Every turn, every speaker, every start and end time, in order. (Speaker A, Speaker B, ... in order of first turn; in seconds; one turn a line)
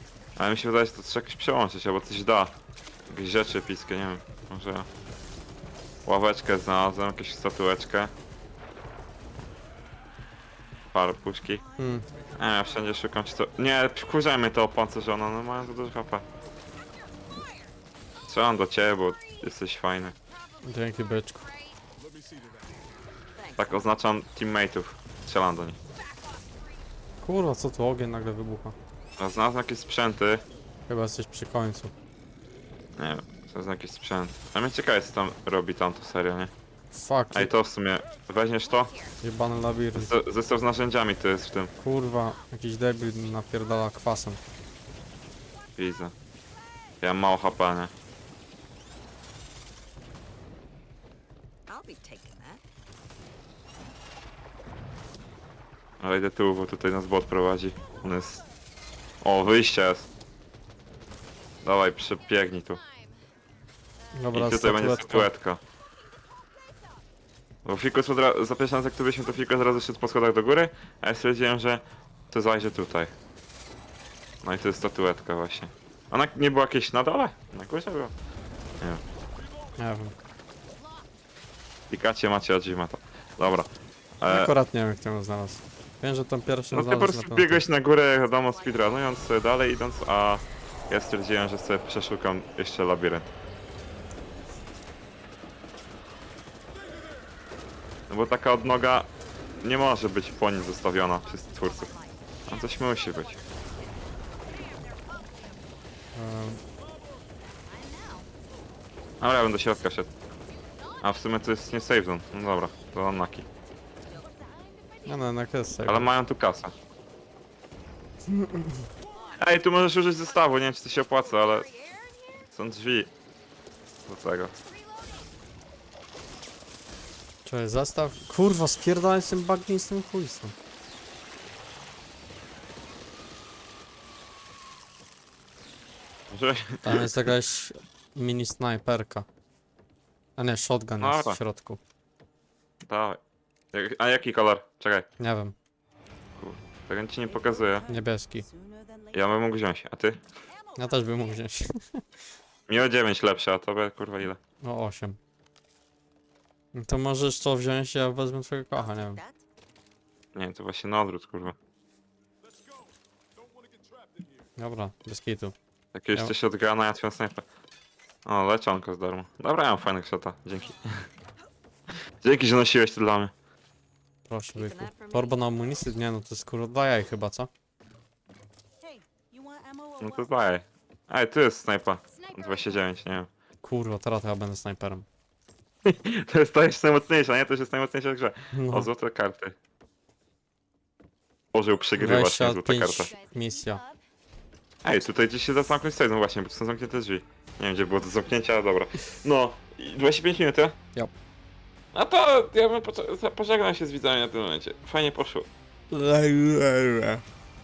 Speaker A: 0.4-2.5
Speaker A: 3.1-4.9
Speaker A: 6.0-8.1
Speaker A: 10.9-11.6
Speaker B: 11.7-12.0
Speaker C: 11.8-12.1
Speaker A: 12.4-16.2
Speaker A: 18.3-20.1
Speaker C: 20.6-21.4
Speaker B: 21.2-21.8
Speaker B: 23.3-23.9
Speaker A: 23.6-25.8
Speaker B: 25.9-26.8
Speaker C: 27.2-28.7
Speaker A: 29.2-30.4
Speaker C: 30.9-31.9
Speaker A: 33.0-36.5
Speaker C: 36.9-37.5
Speaker A: 37.3-38.9
Speaker C: 39.2-40.1
Speaker A: 39.9-41.7
Speaker C: 41.8-44.4
Speaker A: 45.8-46.1
Speaker A: 47.0-47.9
Speaker B: 51.7-52.6
Speaker A: 56.0-58.4
Speaker A: 59.2-60.1
Speaker A: 61.6-62.8
Speaker C: 64.1-65.3
Speaker A: 64.3-65.6
Speaker A: 67.6-73.1
Speaker A: 74.4-78.1
Speaker C: 79.8-80.1
Speaker A: 81.9-83.7
Speaker A: 84.2-84.5
Speaker C: 84.2-87.6
Speaker A: 86.7-93.3
Speaker A: 98.1-99.1
Speaker A: 99.6-101.9
Speaker B: 101.5-102.1
Speaker A: 102.5-103.4
Speaker B: 104.1-105.6
Speaker C: 106.1-106.6
Speaker B: 107.7-108.3
Speaker A: 109.2-110.1
Speaker A: 111.0-113.5
Speaker B: 114.0-115.3
Speaker C: 115.0-116.1
Speaker A: 115.8-116.7
Speaker C: 118.3-118.9
Speaker A: 119.4-121.7
Speaker B: 121.2-122.5
Speaker A: 122.5-123.1
Speaker A: 124.0-124.5
Speaker B: 124.6-125.3
Speaker C: 127.4-130.5
Speaker A: 136.3-137.2
Speaker C: 136.8-139.3
Speaker C: 140.4-141.8
Speaker A: 141.0-141.4
Speaker A: 142.8-143.2
Speaker A: 143.7-145.1
Speaker C: 145.2-145.5
Speaker A: 146.4-147.8
Speaker B: 147.2-149.2
Speaker C: 147.9-148.4
Speaker A: 149.1-150.2
Speaker B: 150.5-151.4
Speaker C: 150.8-152.0
Speaker A: 152.7-154.4
Speaker C: 154.6-155.2
Speaker C: 156.7-159.2
Speaker B: 158.7-159.4
Speaker A: 160.3-161.6
Speaker C: 164.6-165.5
Speaker A: 165.9-167.4
Speaker A: 168.2-171.1
Speaker A: 172.2-173.3
Speaker C: 174.2-177.5
Speaker B: 174.5-175.5
Speaker B: 178.8-180.3
Speaker A: 180.0-183.3
Speaker B: 182.1-182.8
Speaker C: 183.6-185.1
Speaker A: 185.8-189.6
Speaker C: 188.5-188.9
Speaker A: 191.5-193.1
Speaker C: 192.0-193.8
Speaker B: 192.9-194.0
Speaker A: 194.8-200.8
Speaker A: 201.9-205.5
Speaker C: 205.9-207.2